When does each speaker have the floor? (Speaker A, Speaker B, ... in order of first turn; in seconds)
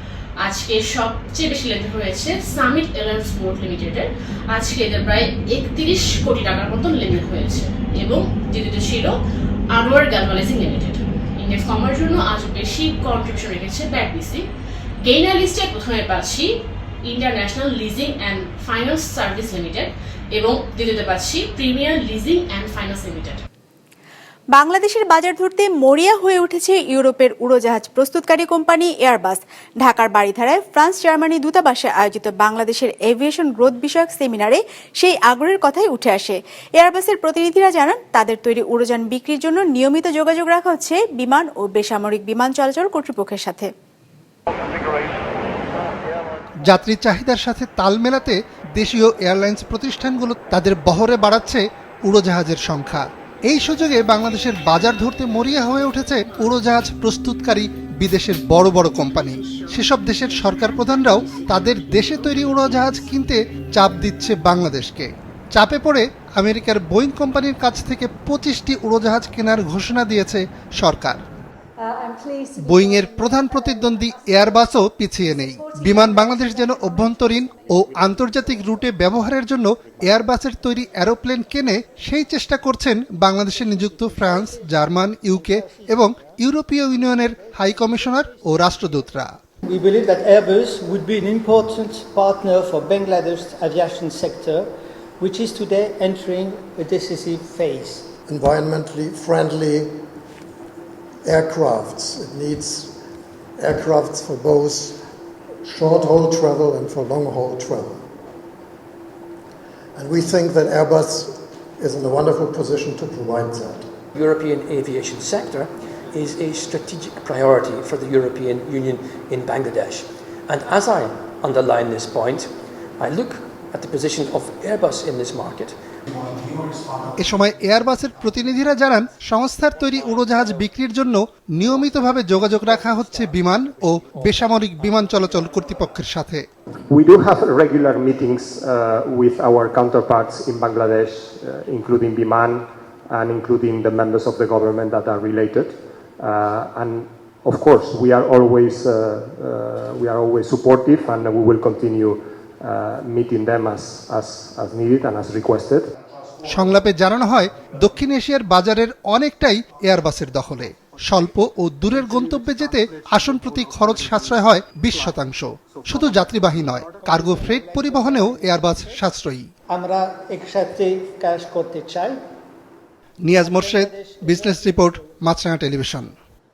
Speaker A: 0.4-9.2, 9.7-14.5, 15.0-23.4
Speaker B: 24.6-43.7
Speaker C: 46.7-71.2, 72.6-89.3, 127.2-136.5, 156.5-169.5, 173.3-176.1
Speaker D: 83.9-86.0, 89.7-94.7, 95.2-98.0, 132.4-133.3, 166.9-169.0, 169.7-172.2, 173.4-174.8
Speaker E: 98.3-100.1, 101.2-103.0, 103.6-105.1, 105.6-108.1, 110.0-113.9
Speaker F: 114.2-125.8
Speaker G: 136.9-155.8